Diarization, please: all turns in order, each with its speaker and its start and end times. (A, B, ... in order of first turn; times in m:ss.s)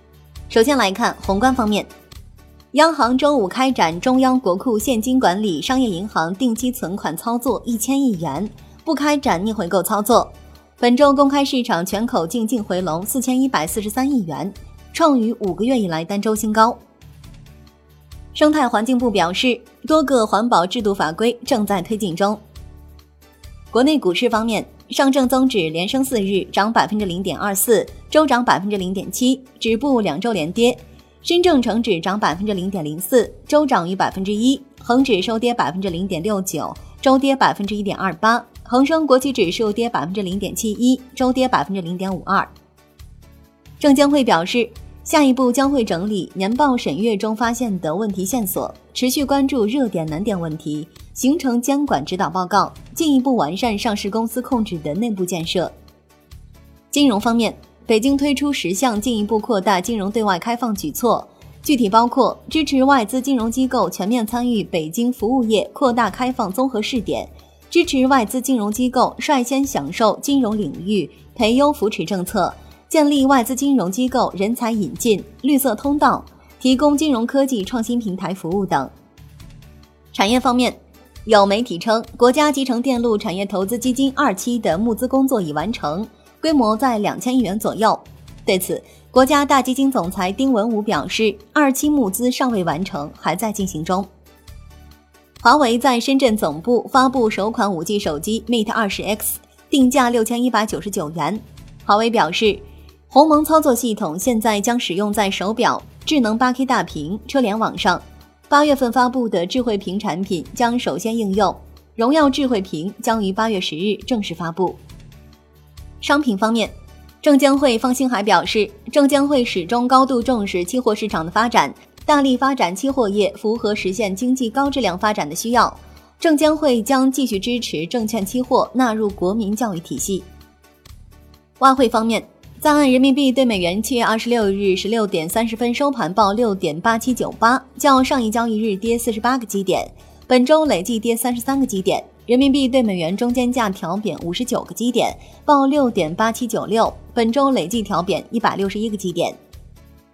0:00.5-0:01.9 A
0:02.7-0:16.8 A
0:18.3-0:22.4 A
0:23.7-0:42.5 A
0:43.8-0:55.7 A
0:56.9-1:18.9 A
1:20.1-1:34.1 A
1:35.4-1:54.8 A
1:56.0-2:10.3 A
2:11.6-2:29.4 A